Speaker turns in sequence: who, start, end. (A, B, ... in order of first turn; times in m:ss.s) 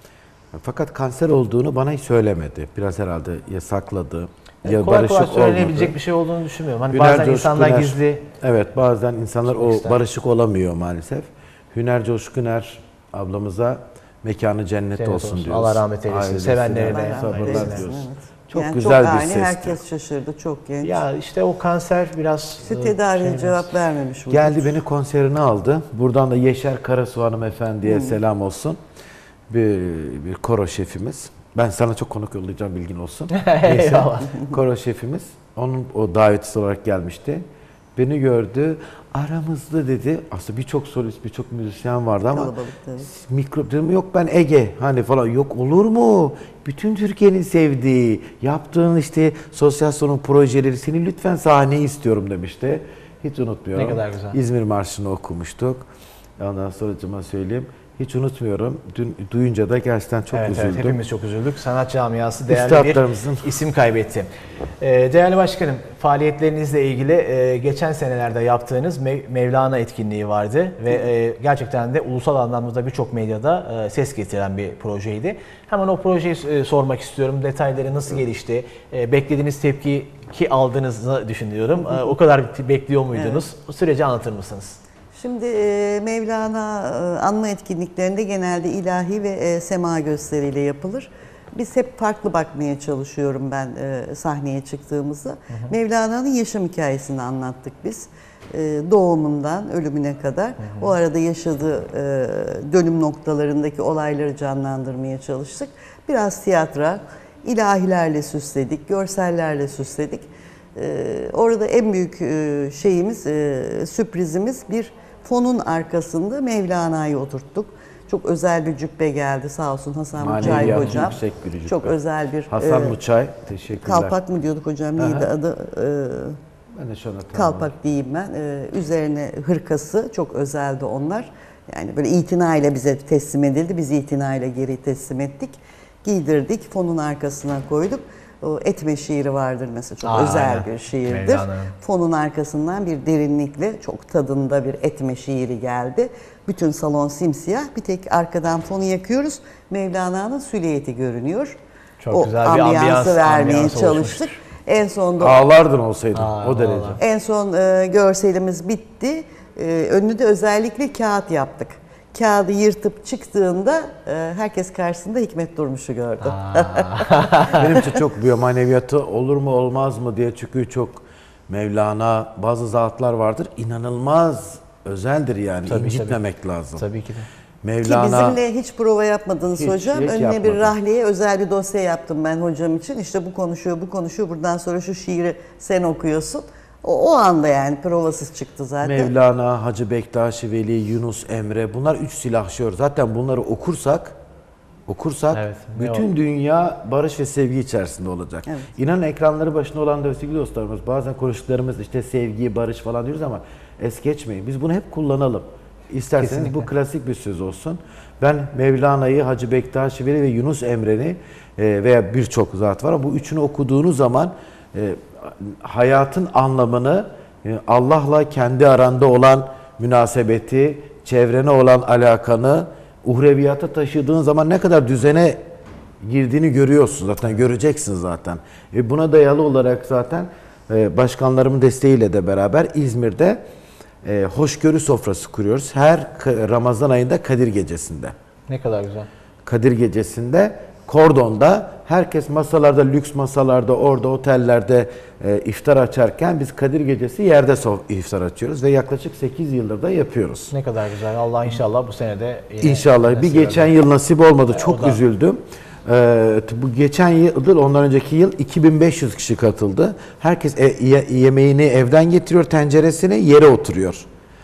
0:00.5-0:06.0 A
0:04.6-0:08.3 B
0:06.9-0:19.8 A
0:09.5-0:10.0 B
0:15.0-0:17.8 B
0:16.8-0:21.0 C
0:20.8-0:23.7 B
0:22.7-0:24.7 C
0:24.3-0:28.8 A
0:27.9-0:28.2 C
0:29.5-0:37.4 A
0:33.3-0:34.4 B
0:38.0-0:55.9 A
0:42.3-0:43.1 C
0:53.8-0:54.4 B
0:56.4-1:01.0 A
1:00.3-1:04.3 B
1:02.5-1:03.5 A
1:04.8-1:24.8 B
1:23.2-1:23.4 C
1:25.2-2:03.0 C
1:40.6-1:40.9 B
2:00.2-2:02.0 A
2:00.4-2:01.0 B
2:02.5-2:04.2 A
2:03.8-2:06.4 C
2:05.0-2:05.3 A
2:06.7-2:07.7 A
2:07.3-2:31.6 C
2:20.0-2:21.8 B
2:32.0-2:34.4 B
2:32.1-2:35.5 C
2:35.2-2:37.0 A
2:36.1-2:37.0 B
2:37.0-2:47.8 C
2:46.2-2:47.7 B
2:47.5-2:56.8 A
2:55.7-2:56.2 B
2:56.8-2:57.3 B
2:57.6-2:58.4 A
2:57.8-3:09.1 C
2:59.6-3:00.8 A
3:08.8-3:14.2 A
3:14.9-3:45.4 A
3:15.3-3:16.1 B
3:26.2-3:26.7 B
3:46.0-3:53.4 A
3:54.0-3:58.1 A
3:58.5-3:59.1 B
3:59.4-4:10.5 A
4:10.5-4:13.7 B
4:12.6-4:24.1 A
4:14.5-4:15.0 B